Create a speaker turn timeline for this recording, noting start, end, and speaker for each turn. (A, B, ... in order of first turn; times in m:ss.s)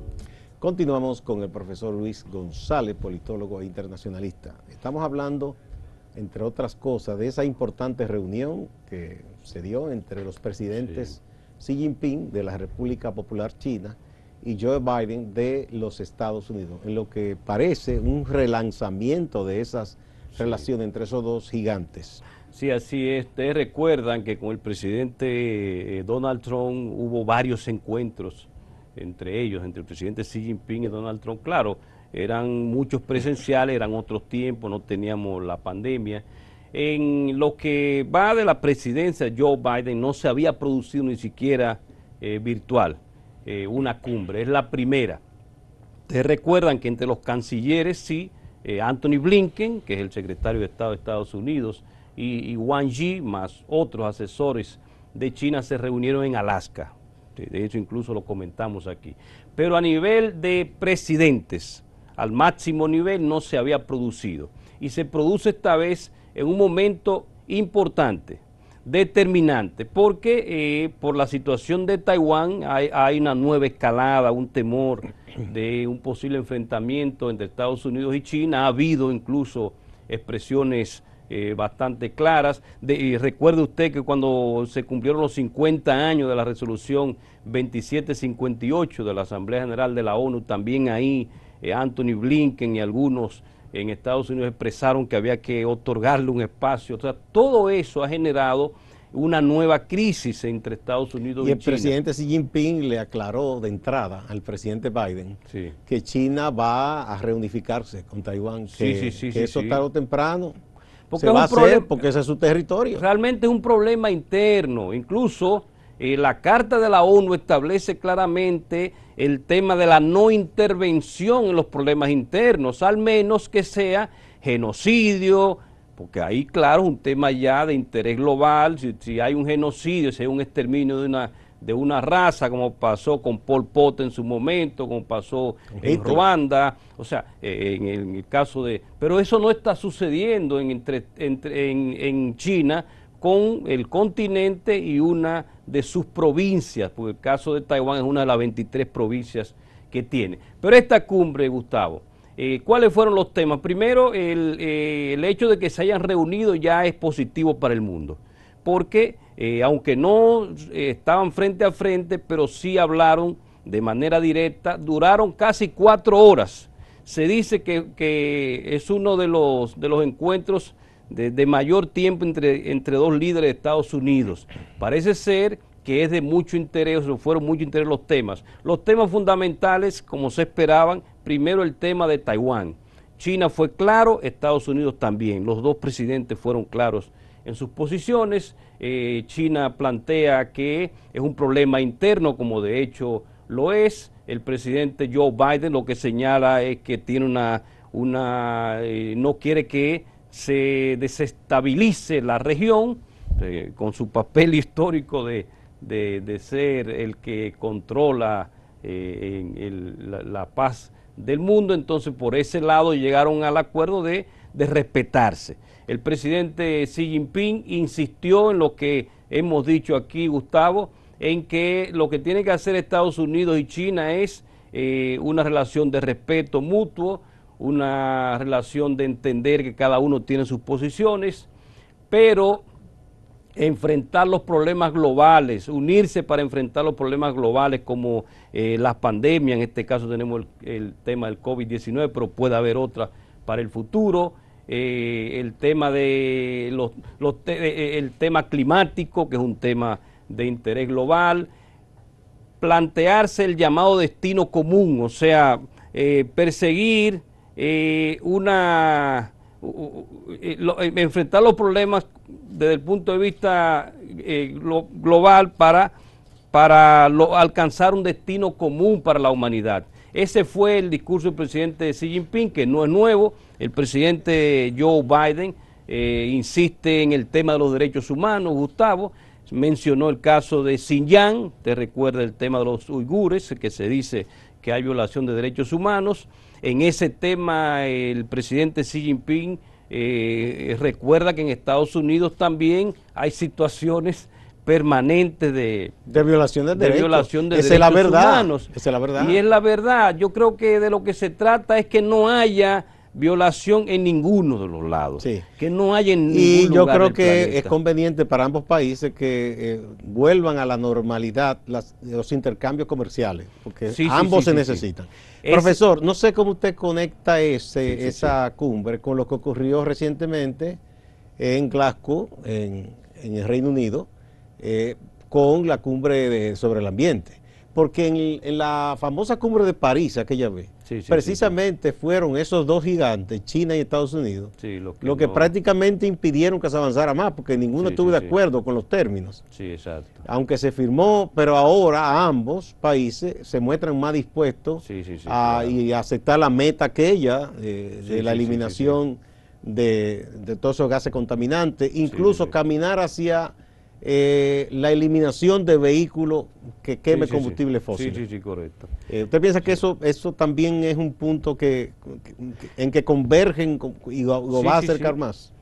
0:00.6-0:05.5 A
0:06.1-0:22.2 A
0:20.3-0:20.6 B
0:22.5-0:45.2 B
0:46.1-1:41.9 B
1:41.4-1:50.6 A
1:45.5-1:45.7 B
1:48.7-1:49.8 B
1:51.1-1:52.0 B
1:51.2-1:53.0 A
1:52.9-3:51.5 B
2:15.8-2:16.2 A
3:52.1-3:52.6 B
3:53.6-4:11.5 B
4:12.6-4:25.9 B
4:26.5-4:56.1 B
4:56.1-4:59.4 A
4:56.7-5:07.7 B
5:05.2-5:05.4 A
5:06.3-5:20.8 A
5:13.9-5:14.8 B
5:15.4-5:15.8 B
5:17.8-5:18.4 B
5:21.4-5:24.1 A
5:24.6-5:39.4 A
5:30.8-5:31.5 B
5:34.6-5:35.5 B
5:37.8-5:38.4 B
5:39.5-5:40.2 B
5:40.2-5:58.2 A
5:44.8-5:45.8 B
5:48.0-5:49.0 B
5:52.0-5:52.5 B
5:57.1-5:58.9 B
5:59.1-6:05.5 A
6:04.5-6:05.2 B